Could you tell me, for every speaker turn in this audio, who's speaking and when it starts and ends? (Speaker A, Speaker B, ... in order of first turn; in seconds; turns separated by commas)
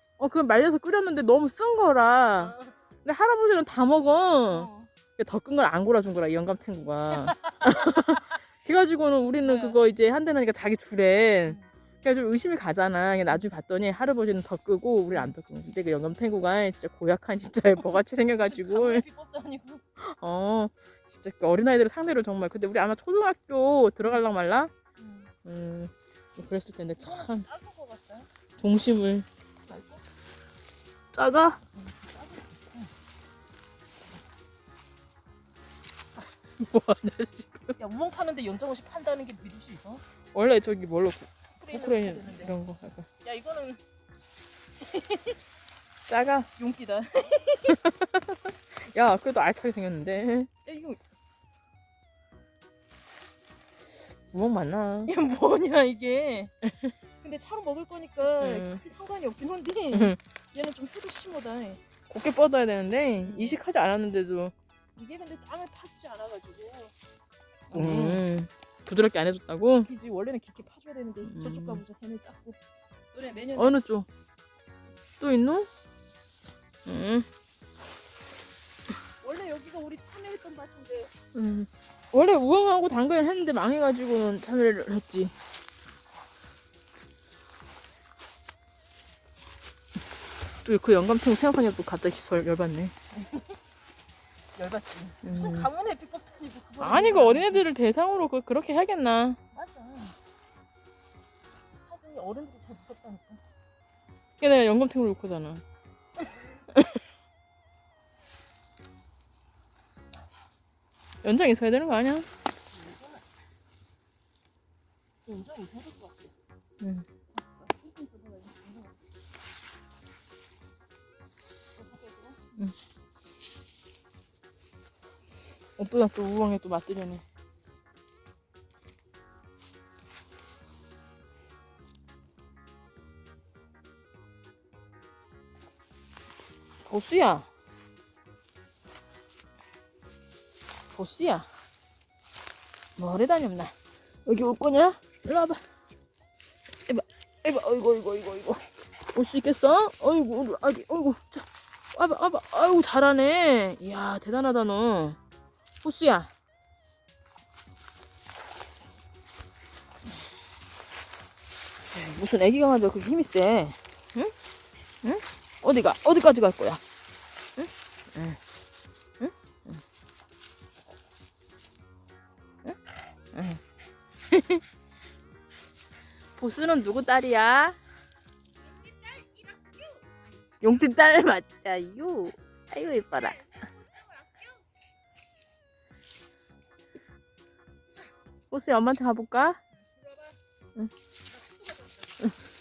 Speaker A: 0.2-19.1, Speaker B: 2.4-2.7, Speaker B: 4.5-4.9, Speaker B: 7.2-7.6, Speaker B: 9.4-9.8, Speaker B: 18.4-19.8, Speaker A: 20.0-24.7, Speaker B: 25.0-25.3, Speaker A: 25.4-27.5, Speaker B: 27.0-28.3, Speaker A: 28.6-29.3, Speaker B: 29.7-30.0, Speaker A: 31.1-31.6, Speaker B: 31.7-32.9, Speaker A: 36.5-37.7, Speaker B: 37.8-40.0, Speaker A: 40.3-43.1, Speaker B: 41.6-42.6, Speaker B: 43.2-43.8, Speaker B: 44.8-45.4, Speaker A: 46.1-46.5, Speaker B: 46.6-47.8, Speaker A: 47.7-50.5, Speaker B: 50.6-51.0, Speaker A: 54.3-55.1, Speaker B: 55.1-56.5, Speaker A: 56.7-56.9, Speaker B: 57.2-61.8, Speaker A: 58.4-58.8, Speaker A: 59.9-60.2, Speaker A: 62.1-64.5, Speaker B: 63.2-63.6, Speaker B: 65.0-66.9, Speaker B: 67.7-68.2, Speaker A: 67.7-69.9, Speaker B: 69.8-72.6, Speaker A: 71.2-71.8, Speaker B: 73.1-73.8, Speaker A: 73.5-74.1, Speaker A: 75.2-75.7, Speaker A: 76.8-77.3, Speaker B: 79.2-81.1, Speaker A: 81.3-85.3, Speaker A: 90.6-92.9, Speaker B: 93.1-93.6, Speaker B: 94.5-97.7, Speaker A: 95.2-95.7, Speaker A: 96.8-99.4, Speaker B: 99.5-100.1, Speaker B: 101.8-103.4, Speaker A: 104.4-105.6, Speaker A: 106.7-107.0, Speaker A: 111.2-112.3, Speaker B: 112.7-113.2, Speaker B: 115.2-116.3, Speaker A: 116.8-117.0, Speaker B: 117.3-119.0, Speaker B: 121.7-122.4, Speaker A: 125.8-127.2, Speaker A: 136.8-137.5, Speaker A: 140.9-141.5, Speaker A: 143.0-143.7, Speaker A: 144.2-145.6, Speaker A: 146.9-155.2, Speaker A: 155.8-156.3, Speaker A: 161.9-164.3, Speaker A: 165.0-166.8, Speaker A: 167.6-168.4, Speaker A: 169.2-169.8, Speaker A: 173.3-173.6, Speaker A: 174.3-174.6, Speaker A: 176.4-177.8, Speaker B: 178.7-180.0, Speaker A: 180.6-183.6, Speaker B: 183.3-184.6, Speaker A: 188.5-189.6, Speaker B: 189.8-190.3, Speaker B: 191.3-192.3